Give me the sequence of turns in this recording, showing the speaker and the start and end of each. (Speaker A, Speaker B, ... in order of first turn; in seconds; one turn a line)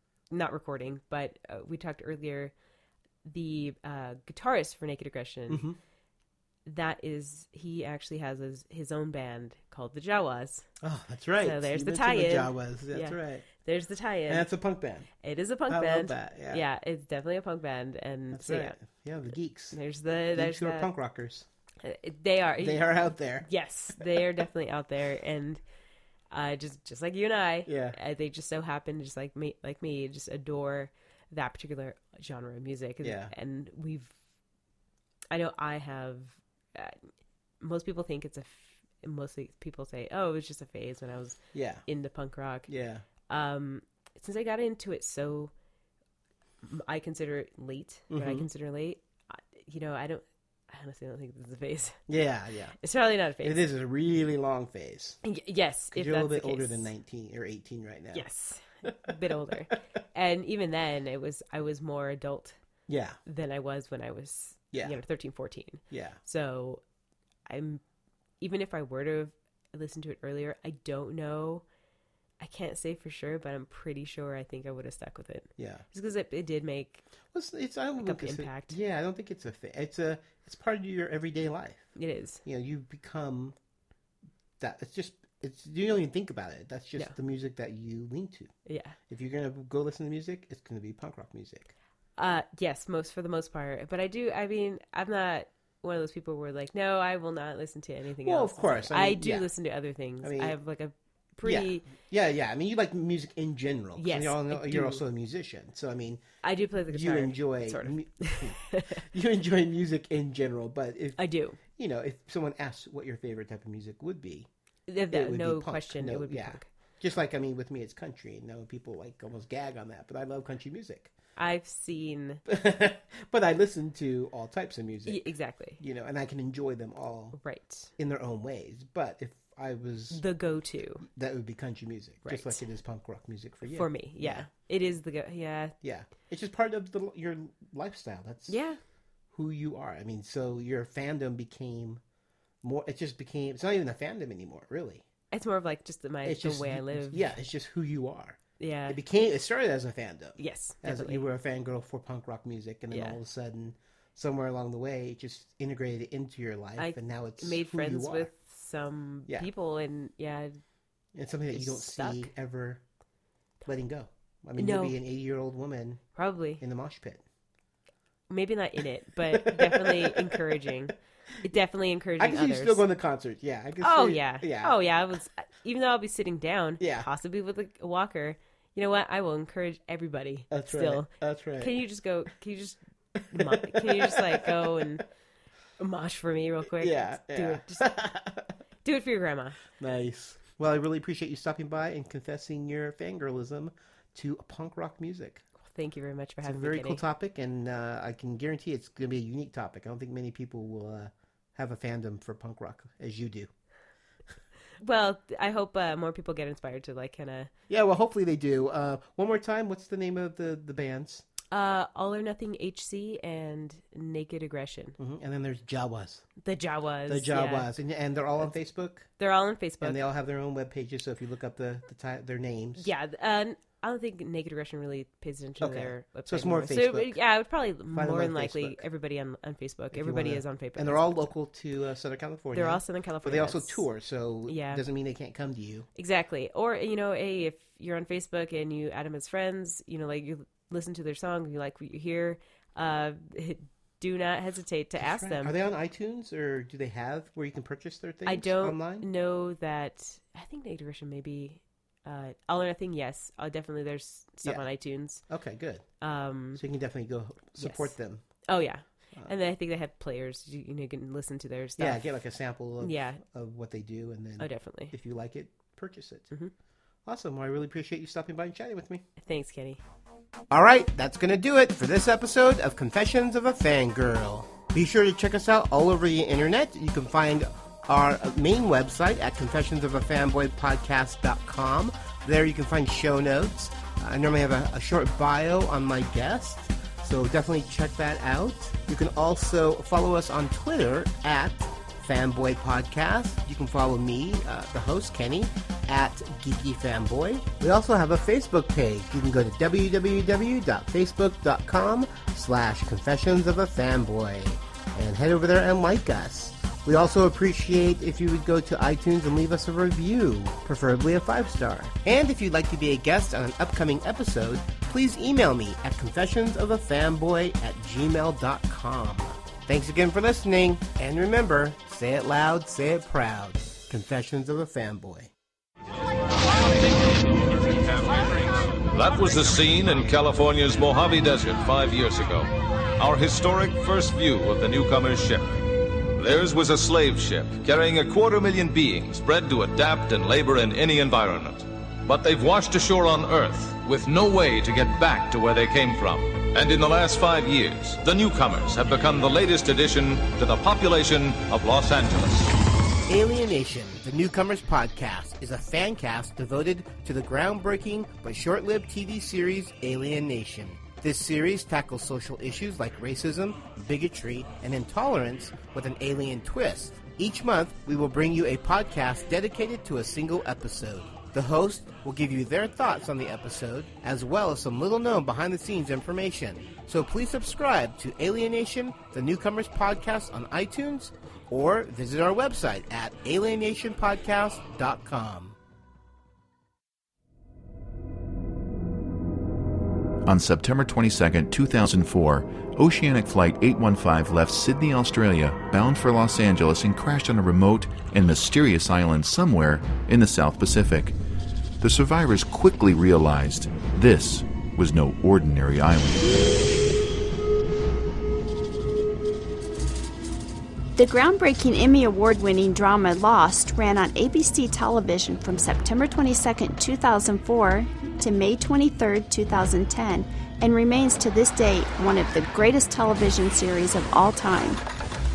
Speaker A: 0.3-2.5
Speaker A: 3.2-5.7
Speaker B: 5.5-5.8
Speaker A: 6.7-10.7
Speaker B: 10.8-13.5
Speaker A: 11.4-14.5
Speaker B: 14.3-15.1
Speaker A: 15.2-18.8
Speaker B: 15.7-16.6
Speaker B: 18.3-19.8
Speaker A: 19.7-20.9
Speaker B: 20.4-21.5
Speaker A: 21.8-25.6
Speaker B: 22.6-24.2
Speaker A: 26.3-34.2
Speaker B: 27.7-28.0
Speaker B: 33.0-33.3
Speaker A: 35.3-37.0
Speaker A: 37.6-42.7
Speaker B: 41.5-41.9
Speaker B: 42.7-43.0
Speaker A: 43.3-45.5
Speaker A: 46.6-52.0
Speaker B: 48.1-48.5
Speaker B: 52.1-52.8
Speaker A: 52.8-53.7
Speaker B: 53.4-55.2
Speaker A: 55.2-56.9
Speaker B: 55.9-58.3
Speaker A: 58.1-62.6
Speaker B: 58.9-59.2
Speaker B: 62.9-63.2
Speaker A: 63.2-66.8
Speaker B: 64.7-65.0
Speaker B: 65.9-66.2
Speaker A: 67.5-67.8
Speaker A: 68.4-71.7
Speaker A: 72.4-77.1
Speaker B: 75.6-75.9
Speaker B: 77.3-81.9
Speaker A: 78.0-78.8
Speaker A: 82.0-82.4
Speaker B: 82.5-83.6
Speaker B: 84.6-88.5
Speaker A: 88.7-89.0
Speaker B: 89.1-91.7
Speaker A: 92.2-101.9
Speaker B: 98.2-99.5
Speaker B: 100.2-100.6
Speaker B: 101.4-106.2
Speaker A: 104.0-105.0
Speaker A: 106.4-109.0
Speaker B: 106.9-114.5
Speaker A: 111.2-111.6
Speaker A: 114.9-116.7
Speaker B: 115.1-121.1
Speaker A: 121.4-122.4
Speaker B: 122.5-125.2
Speaker A: 125.1-125.8
Speaker B: 125.8-127.4
Speaker A: 127.4-127.9
Speaker B: 128.0-130.2
Speaker A: 130.1-131.1
Speaker B: 131.1-134.5
Speaker A: 132.2-132.7
Speaker A: 133.7-135.8
Speaker B: 135.8-138.6
Speaker A: 138.5-138.8
Speaker B: 139.3-142.0
Speaker B: 142.6-145.1
Speaker A: 145.3-147.3
Speaker B: 146.2-158.3
Speaker A: 148.6-149.0
Speaker A: 150.4-151.2
Speaker A: 152.9-153.2
Speaker A: 156.8-160.6
Speaker B: 161.1-162.8
Speaker A: 161.5-162.3
Speaker B: 163.7-166.1
Speaker A: 164.6-165.0
Speaker A: 166.2-166.6
Speaker B: 166.6-167.2
Speaker A: 168.3-172.8
Speaker B: 169.3-170.7
Speaker B: 172.2-174.8
Speaker A: 173.8-185.0
Speaker B: 176.8-177.1
Speaker B: 180.5-181.8
Speaker B: 183.3-185.0
Speaker A: 185.8-188.0
Speaker B: 186.8-188.5
Speaker A: 188.8-189.6
Speaker B: 189.8-195.4
Speaker A: 195.6-197.0
Speaker B: 196.4-203.5
Speaker A: 204.8-207.5
Speaker B: 207.7-211.3
Speaker A: 211.5-215.0
Speaker B: 215.0-216.3
Speaker A: 216.4-217.7
Speaker B: 217.1-219.1
Speaker A: 219.2-220.0
Speaker B: 219.8-222.9
Speaker A: 222.8-231.3
Speaker B: 225.6-227.2
Speaker B: 227.9-228.8
Speaker B: 229.9-235.9
Speaker A: 232.5-233.8
Speaker A: 234.5-234.8
Speaker A: 235.9-245.6
Speaker B: 245.0-249.1
Speaker A: 248.2-255.2
Speaker B: 255.3-255.9
Speaker A: 256.0-256.6
Speaker B: 256.6-258.2
Speaker A: 257.6-262.1
Speaker B: 261.8-266.3
Speaker A: 262.8-263.2
Speaker A: 264.4-264.9
Speaker B: 267.1-269.1
Speaker A: 269.2-269.8
Speaker B: 270.5-325.3
Speaker C: 326.4-335.5
Speaker C: 336.2-352.5
Speaker B: 353.1-385.6
Speaker D: 390.3-401.2
Speaker D: 401.8-406.4
Speaker E: 411.0-424.8